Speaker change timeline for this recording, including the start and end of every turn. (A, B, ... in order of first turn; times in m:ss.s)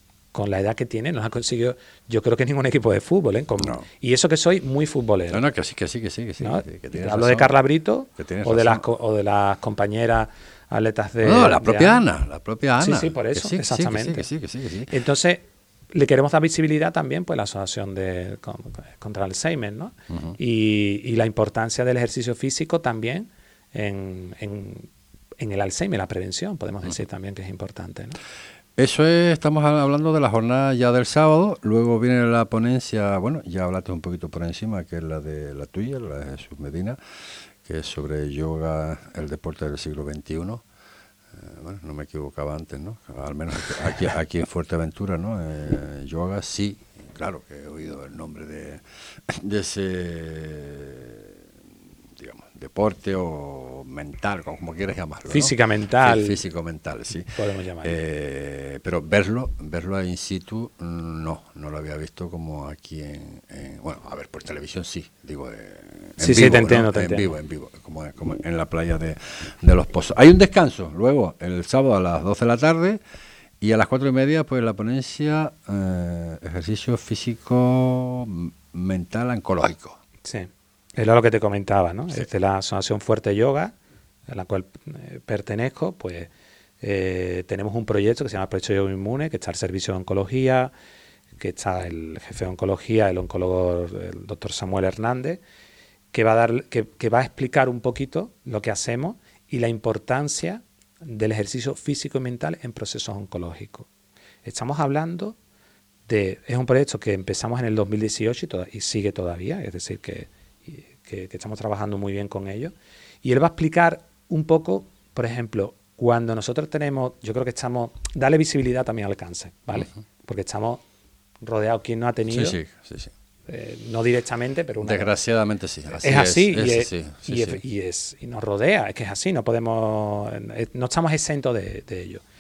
0:00.3-0:05.4 A
0:03.6-0:03.9 B
0:05.3-0:07.5 B
0:06.4-0:12.0 A
0:08.2-0:08.8 B
0:11.2-0:14.9 B
0:12.8-0:14.3 A
0:14.9-0:28.2 A
0:20.1-0:20.4 B
0:28.8-0:37.0 B
0:37.6-0:40.6 B
0:41.3-0:51.4 B
0:52.2-1:13.0 B
0:55.3-0:56.4 A
0:57.4-0:58.0 A
1:06.2-1:07.3 A
1:13.6-1:20.0 B
1:20.2-1:23.8 A
1:24.3-1:30.7 A
1:31.4-1:35.4 A
1:36.1-1:43.9 A
1:44.4-1:45.4 A
1:46.1-2:00.8 A
2:01.4-2:02.6 A
2:02.3-2:03.1 B
2:03.5-2:05.2 A
2:04.8-2:07.6 B
2:06.0-2:12.2 A